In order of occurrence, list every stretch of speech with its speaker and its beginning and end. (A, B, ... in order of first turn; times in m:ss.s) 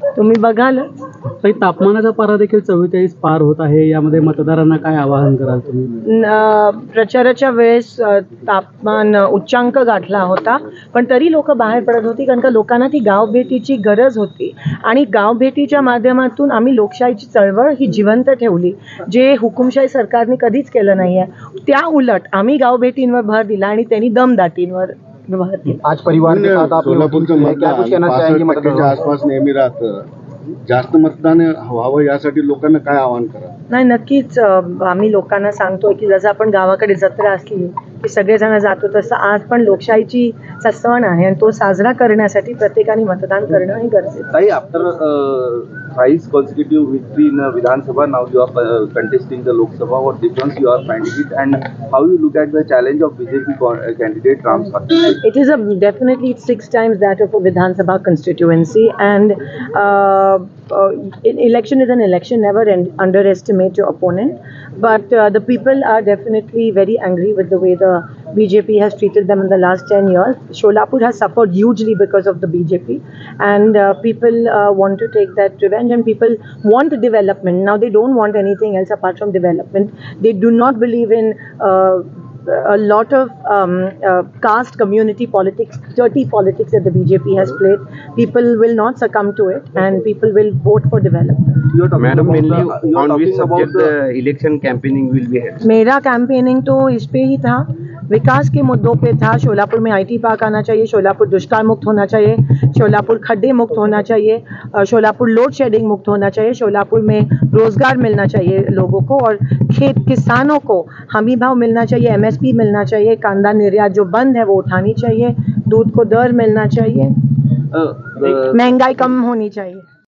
0:00.2-0:00.9 A
0:01.4-0:05.9 B
0:06.1-0:25.8 A
0:25.8-0:29.0 C
0:26.2-0:30.1 D
0:30.7-0:33.5 D
0:33.7-0:44.3 A
0:44.3-0:55.2 E
0:55.2-1:31.6 A
1:31.7-1:33.9 E
1:32.0-1:35.6 F
1:35.6-1:57.1 A
1:57.7-1:58.8 E
1:58.2-1:59.8 A